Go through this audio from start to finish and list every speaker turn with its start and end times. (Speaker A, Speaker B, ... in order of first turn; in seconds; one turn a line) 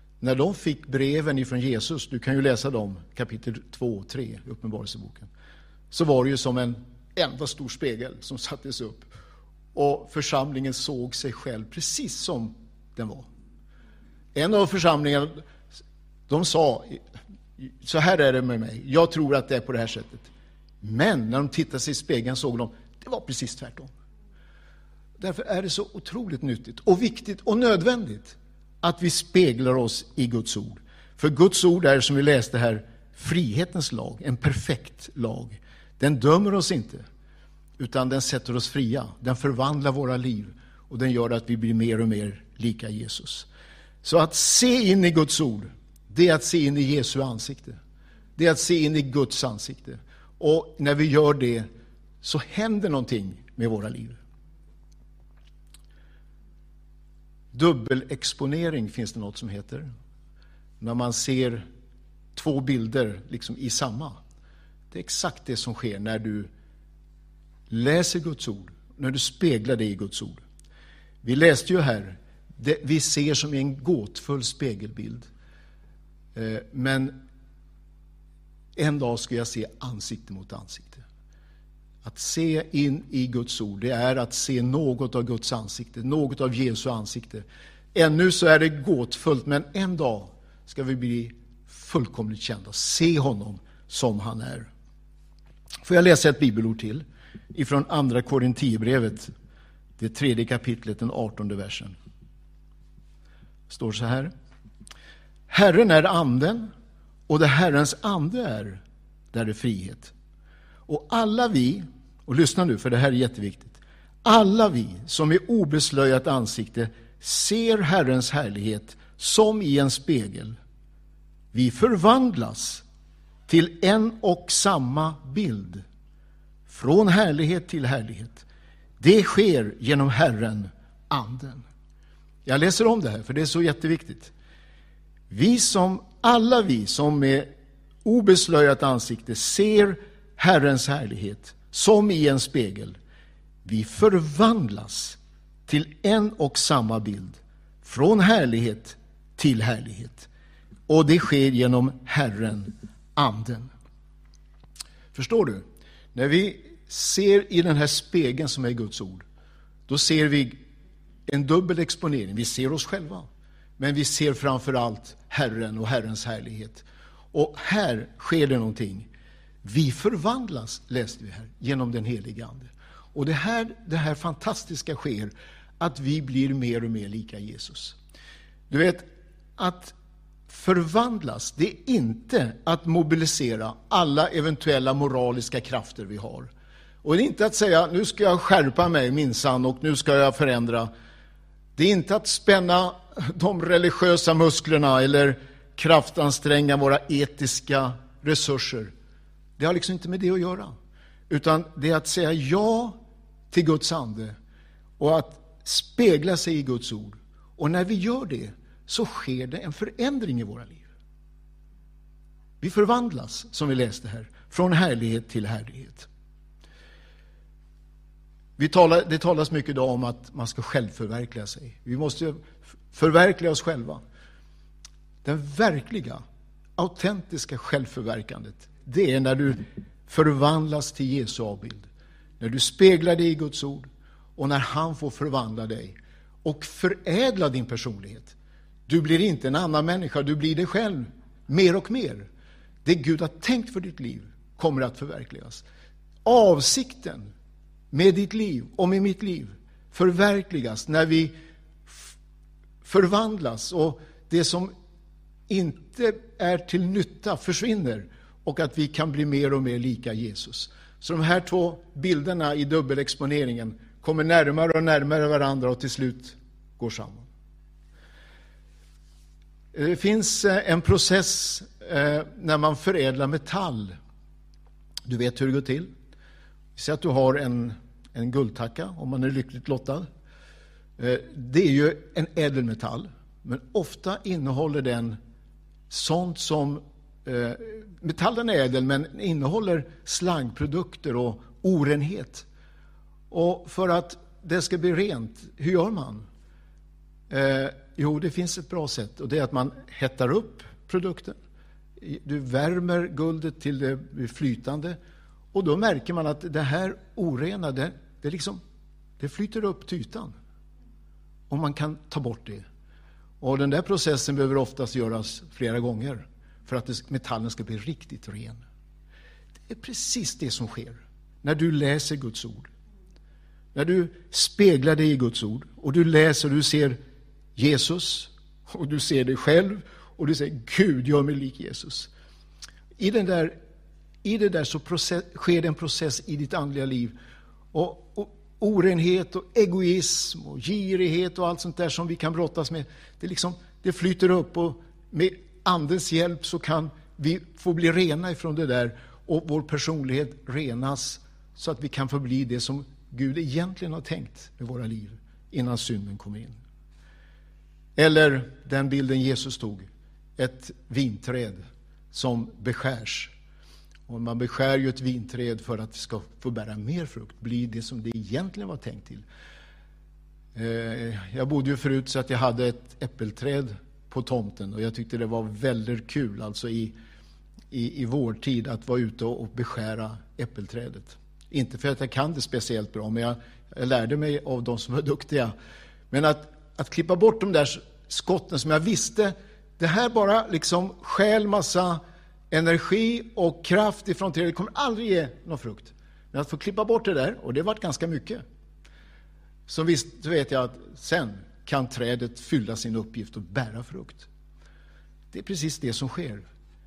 Speaker A: 0.2-5.3
Speaker A: 5.9-9.1
Speaker A: 9.7-13.3
Speaker A: 14.3-15.4
Speaker A: 16.3-17.0
Speaker A: 17.6-20.3
Speaker A: 20.8-23.9
Speaker A: 25.2-37.0
Speaker A: 37.8-43.5
Speaker A: 44.0-47.8
Speaker A: 48.4-51.7
Speaker A: 52.2-54.2
Speaker A: 57.5-59.9
Speaker A: 60.8-61.7
Speaker A: 62.4-64.2
Speaker A: 64.9-66.5
Speaker A: 67.7-70.4
Speaker A: 71.2-75.3
Speaker A: 76.3-77.2
Speaker A: 78.8-81.0
Speaker A: 82.0-94.7
Speaker A: 95.8-99.3
Speaker A: 100.0-102.0
Speaker A: 103.7-104.3
Speaker A: 105.5-106.7
Speaker A: 107.3-108.8
Speaker A: 109.3-110.1
Speaker A: 110.9-120.6
Speaker A: 121.5-122.8
Speaker A: 123.5-125.8
Speaker A: 126.7-128.4
Speaker A: 129.0-131.7
Speaker A: 132.5-134.3
Speaker A: 135.3-137.5
Speaker A: 138.1-143.0
Speaker A: 143.7-150.3
Speaker A: 150.9-153.7
Speaker A: 155.1-159.2
Speaker A: 159.9-160.6
Speaker A: 161.3-163.3
Speaker A: 163.8-169.1
Speaker A: 169.6-178.0
Speaker A: 178.7-179.9
Speaker A: 180.5-186.5
Speaker A: 187.0-190.9
Speaker A: 191.8-198.9
Speaker A: 199.6-200.7
Speaker A: 201.3-203.0
Speaker A: 203.5-204.3
Speaker A: 205.0-210.9
Speaker A: 212.6-216.1
Speaker A: 218.6-224.0
Speaker A: 225.2-226.2
Speaker A: 226.8-231.9
Speaker A: 232.4-238.3
Speaker A: 238.9-242.3
Speaker A: 242.8-245.6
Speaker A: 246.2-247.3
Speaker A: 247.9-251.3
Speaker A: 252.8-254.7
Speaker A: 255.5-267.3
Speaker A: 269.7-273.9
Speaker A: 275.1-275.9
Speaker A: 276.8-280.1
Speaker A: 281.0-285.2
Speaker A: 285.9-292.5
Speaker A: 293.3-296.3
Speaker A: 297.3-301.4
Speaker A: 302.0-305.0
Speaker A: 305.5-308.6
Speaker A: 309.2-310.3
Speaker A: 311.5-312.6
Speaker A: 313.4-318.6
Speaker A: 319.7-322.7
Speaker A: 323.8-327.0
Speaker A: 327.6-332.1
Speaker A: 333.0-333.6
Speaker A: 334.2-337.1
Speaker A: 337.7-356.6
Speaker A: 358.0-361.6
Speaker A: 362.1-363.3
Speaker A: 364.1-369.2
Speaker A: 370.6-376.9
Speaker A: 377.7-385.5
Speaker A: 386.1-392.0
Speaker A: 392.5-398.4
Speaker A: 399.7-404.3
Speaker A: 405.3-406.4